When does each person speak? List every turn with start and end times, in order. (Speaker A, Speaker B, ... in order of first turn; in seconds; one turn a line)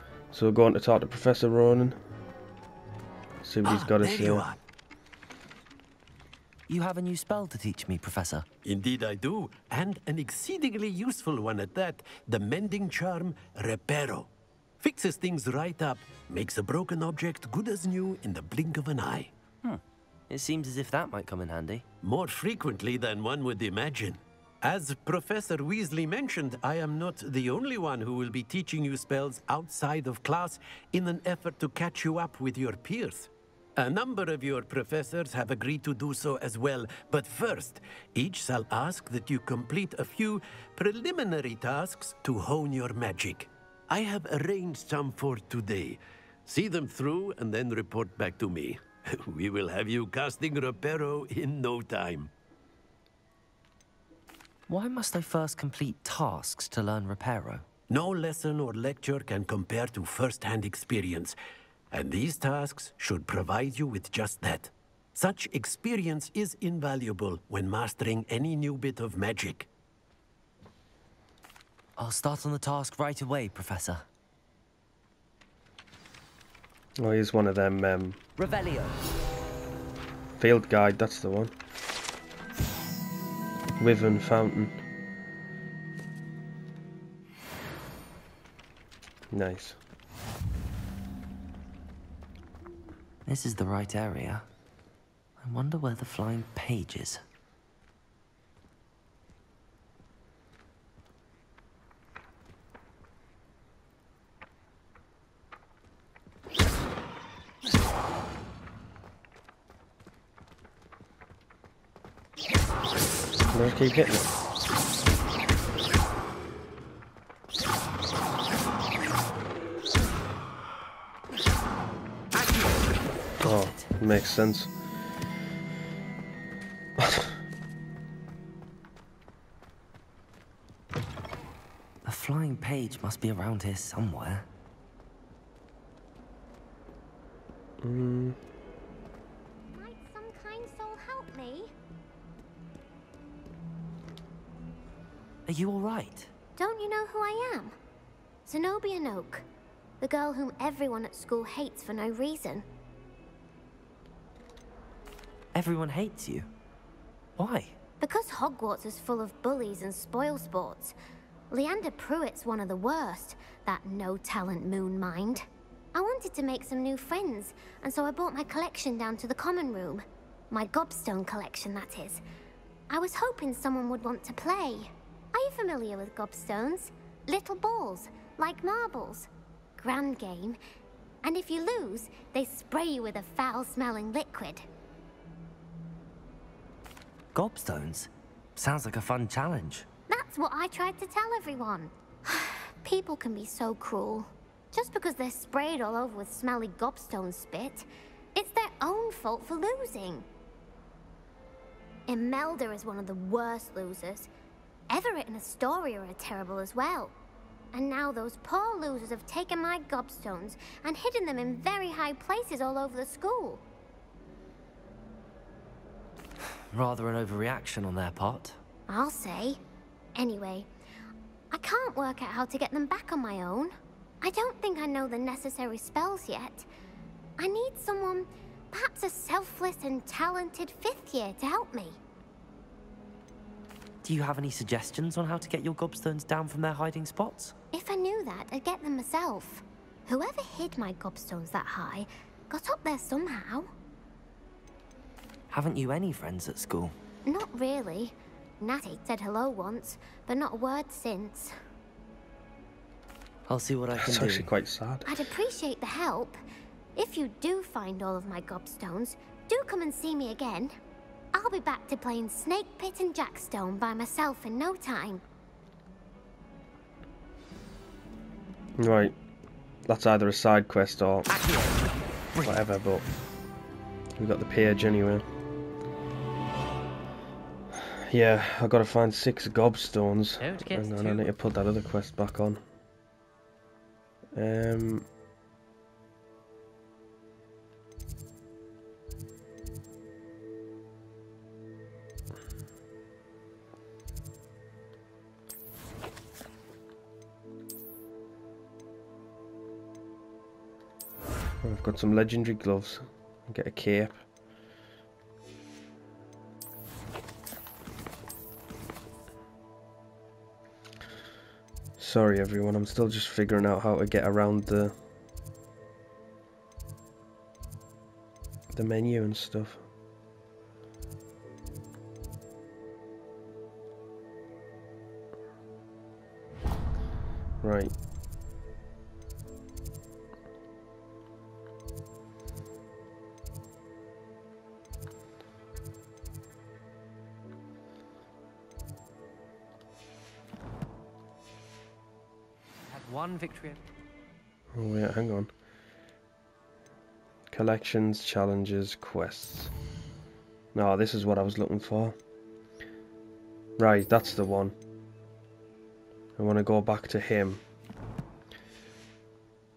Speaker A: 0.3-2.0
Speaker A: 3.4-4.5
Speaker B: 3.6-4.6
Speaker C: 6.7-8.5
Speaker B: 8.6-14.3
Speaker B: 14.8-19.3
Speaker C: 19.6-21.9
Speaker B: 22.0-52.3
Speaker C: 54.7-57.6
Speaker B: 57.9-61.4
Speaker B: 61.9-69.7
Speaker C: 72.0-74.1
Speaker A: 77.0-78.2
Speaker C: 78.4-79.0
Speaker A: 80.4-81.5
Speaker A: 83.8-84.8
Speaker A: 89.3-89.8
Speaker C: 93.3-94.5
Speaker C: 95.4-97.2
Speaker A: 113.5-114.3
Speaker C: 122.5-122.7
Speaker C: 123.4-123.9
Speaker A: 123.4-124.7
Speaker A: 127.0-127.3
Speaker C: 132.0-134.5
Speaker A: 137.8-138.4
Speaker D: 139.7-141.7
Speaker C: 145.5-146.3
Speaker D: 146.6-147.8
Speaker D: 148.5-149.4
Speaker D: 150.0-152.7
Speaker C: 155.5-156.5
Speaker C: 157.4-157.8
Speaker D: 158.0-161.0
Speaker D: 161.5-172.2
Speaker D: 172.9-180.6
Speaker D: 181.2-184.7
Speaker C: 187.3-189.9
Speaker D: 190.1-200.2
Speaker D: 202.1-204.3
Speaker D: 204.9-207.1
Speaker D: 207.7-213.6
Speaker C: 216.7-218.6
Speaker D: 218.9-219.6
Speaker D: 220.2-220.7
Speaker D: 221.5-226.7
Speaker D: 227.4-232.0
Speaker C: 234.0-237.6
Speaker D: 237.7-243.7
Speaker C: 245.5-246.9
Speaker D: 247.2-251.5
Speaker C: 253.5-254.5
Speaker A: 254.0-255.1
Speaker D: 255.1-256.4
Speaker D: 256.9-260.7
Speaker D: 261.3-265.2
Speaker A: 268.8-269.1
Speaker A: 269.9-271.3
Speaker C: 271.3-272.6
Speaker A: 272.4-273.1
Speaker A: 274.2-275.2
Speaker A: 278.1-282.6
Speaker C: 280.4-281.3
Speaker A: 284.4-285.1
Speaker A: 301.6-304.2
Speaker A: 312.0-314.9
Speaker A: 318.7-319.8
Speaker A: 327.6-327.9
Speaker C: 342.9-343.8
Speaker A: 344.7-345.5
Speaker A: 347.5-349.7
Speaker A: 350.8-352.2
Speaker A: 353.8-354.8
Speaker A: 356.4-357.6